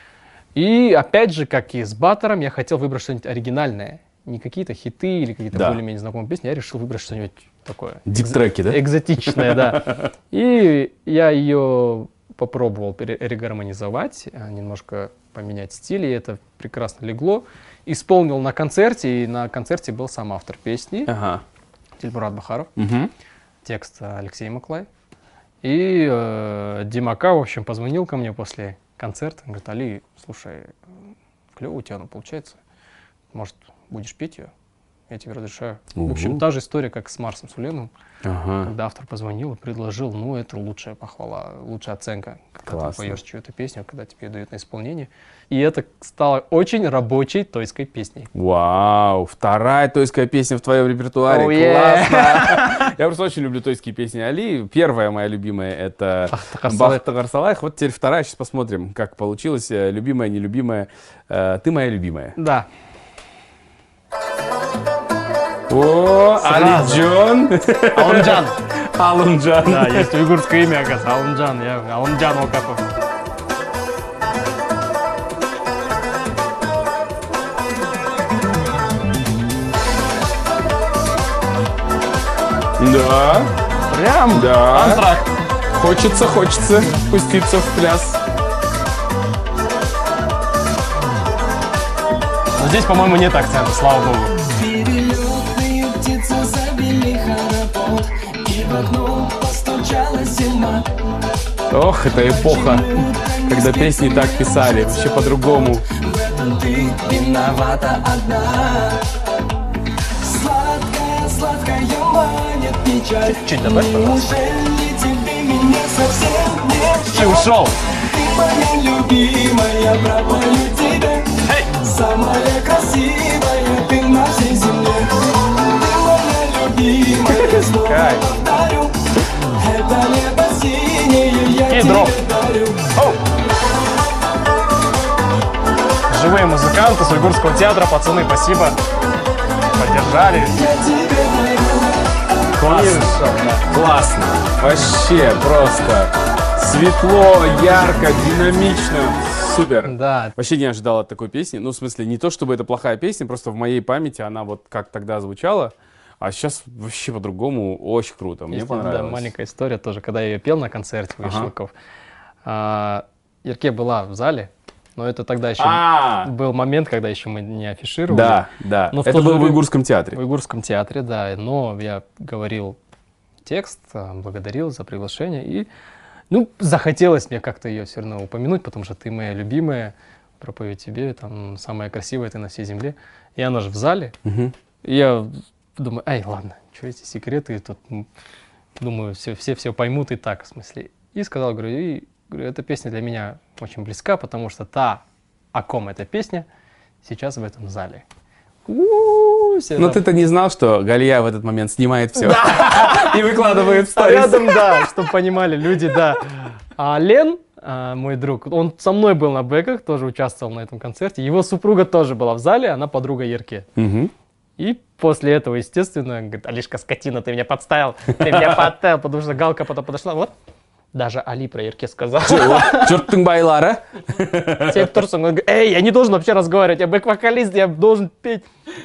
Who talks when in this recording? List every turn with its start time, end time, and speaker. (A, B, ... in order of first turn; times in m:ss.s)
0:00.6-0:21.1 A
0:05.5-0:05.8 B
0:08.1-0:10.1 B
0:21.1-0:21.4 B
0:22.0-0:22.7 A
0:22.8-0:23.1 B
0:23.6-0:24.9 A
0:25.6-0:30.7 A
0:31.6-0:32.6 A
0:33.3-0:34.5 A
0:35.1-0:37.9 A
0:36.0-0:36.4 B
0:38.2-0:38.7 B
0:38.6-0:48.3 A
0:42.7-0:43.2 B
0:48.3-1:02.4 B
0:51.3-0:52.9 A
0:56.3-0:57.0 A
1:02.4-1:02.7 A
1:05.7-1:10.1 B
1:06.4-1:07.1 A
1:07.9-1:08.6 A
1:09.6-1:12.8 A
1:22.8-1:23.5 B
1:23.9-1:25.3 A
1:24.3-1:25.0 B
1:25.7-1:28.2 B
1:32.6-1:34.4 A
1:34.4-1:40.9 C
1:41.7-1:45.8 B
1:42.2-1:49.1 C
1:50.2-2:13.0 C
1:53.2-1:54.3 A
1:57.1-1:57.8 A
2:07.3-2:08.3 B
2:11.7-2:12.2 A
2:16.1-2:18.8 A
2:19.8-2:20.6 A
2:20.4-2:22.0 C
2:22.6-2:39.3 B
2:22.6-2:23.7 A
2:29.8-2:30.4 A
2:38.5-2:41.7 A
2:41.2-2:41.5 B
2:42.4-2:52.8 A
2:45.6-2:46.3 B
2:48.1-2:50.2 B
2:53.4-2:55.7 A
2:56.3-3:04.2 A
3:04.2-3:04.5 B
3:04.8-3:08.1 A
3:08.8-3:16.5 A
3:17.0-3:18.0 A
3:18.7-3:20.0 A
3:19.8-3:24.9 B
3:22.2-3:33.7 A
3:33.8-3:34.1 B
3:34.6-3:40.3 A
3:40.9-3:43.2 A
3:42.3-3:45.0 B
3:44.6-3:48.5 A